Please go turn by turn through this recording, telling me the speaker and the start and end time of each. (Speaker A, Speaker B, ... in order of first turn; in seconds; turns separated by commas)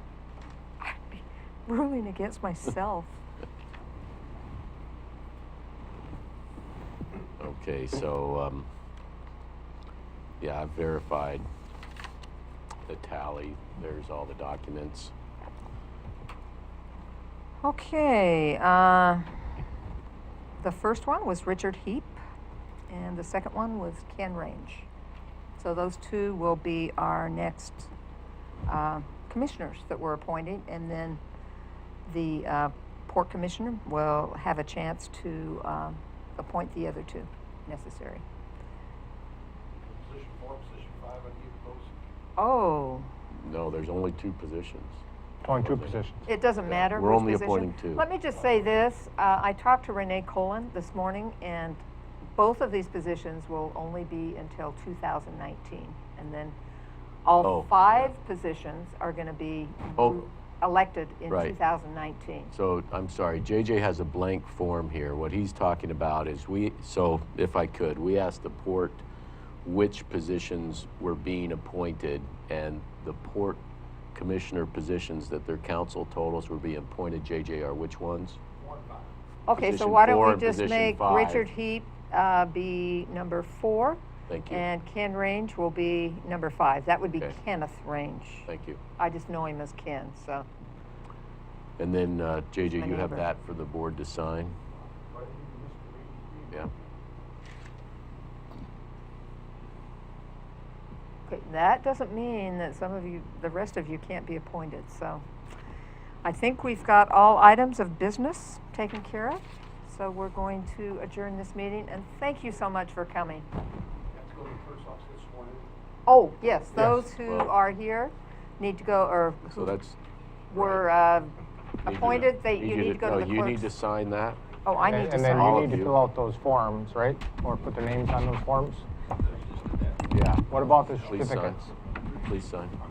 Speaker A: 0.8-3.1, Speaker B: 7.4-8.7, Speaker B: 10.4-11.4, Speaker B: 12.9-15.1, Speaker A: 17.6-19.3, Speaker A: 20.6-22.2, Speaker A: 22.9-24.9, Speaker A: 25.6-27.9, Speaker A: 28.7-31.2, Speaker A: 32.1-38.2, Speaker C: 40.0-41.9, Speaker A: 42.4-43.1, Speaker B: 43.3-46.0, Speaker D: 45.4-46.2, Speaker A: 46.2-51.8, Speaker B: 46.6-48.0, Speaker A: 52.4-56.5, Speaker A: 57.2-62.5, Speaker B: 57.4-58.1, Speaker B: 60.0-60.2, Speaker B: 62.5-69.0, Speaker B: 69.6-73.6, Speaker B: 74.1-78.4, Speaker A: 79.5-90.5, Speaker B: 79.6-81.5, Speaker B: 84.3-84.6, Speaker B: 88.5-88.8, Speaker B: 91.8-94.5, Speaker A: 92.7-93.3, Speaker C: 95.1-96.3, Speaker A: 101.3-105.2, Speaker A: 106.2-113.5, Speaker C: 114.1-115.7, Speaker A: 116.0-119.8, Speaker B: 117.2-117.5, Speaker B: 119.5-120.0, Speaker A: 120.5-123.7, Speaker B: 120.5-120.8, Speaker B: 121.8-124.4, Speaker A: 124.6-125.7, Speaker D: 124.9-128.8, Speaker B: 125.2-125.9, Speaker B: 130.1-132.8, Speaker D: 130.5-131.7, Speaker C: 130.7-131.5